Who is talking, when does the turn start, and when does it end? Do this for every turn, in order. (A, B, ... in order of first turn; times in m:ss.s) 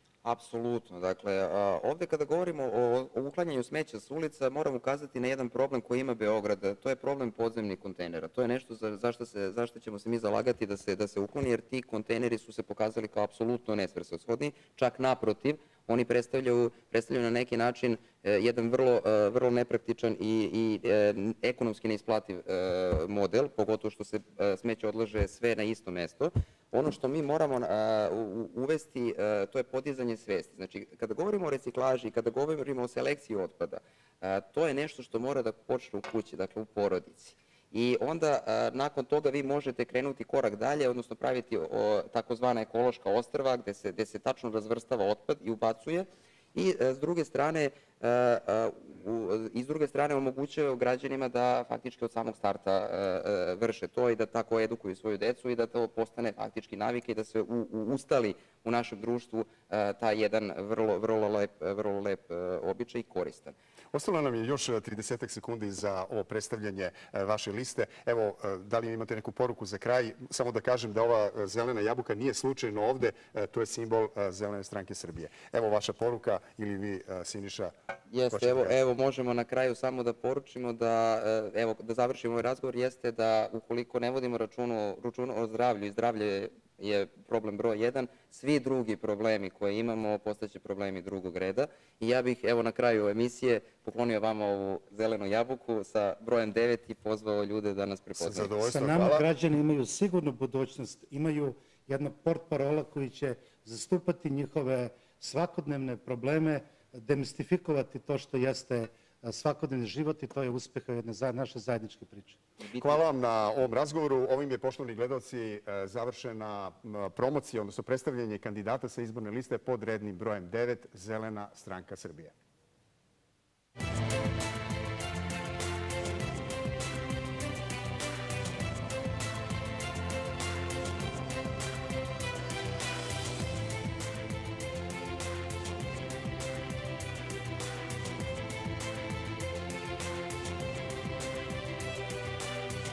0:00.2-1:03.5 A
1:03.9-1:17.7 B
1:18.1-1:38.6 A
1:18.3-1:18.7 B
1:38.2-1:39.3 B
1:38.6-1:52.4 C
1:52.6-1:53.0 A
1:52.8-2:02.3 B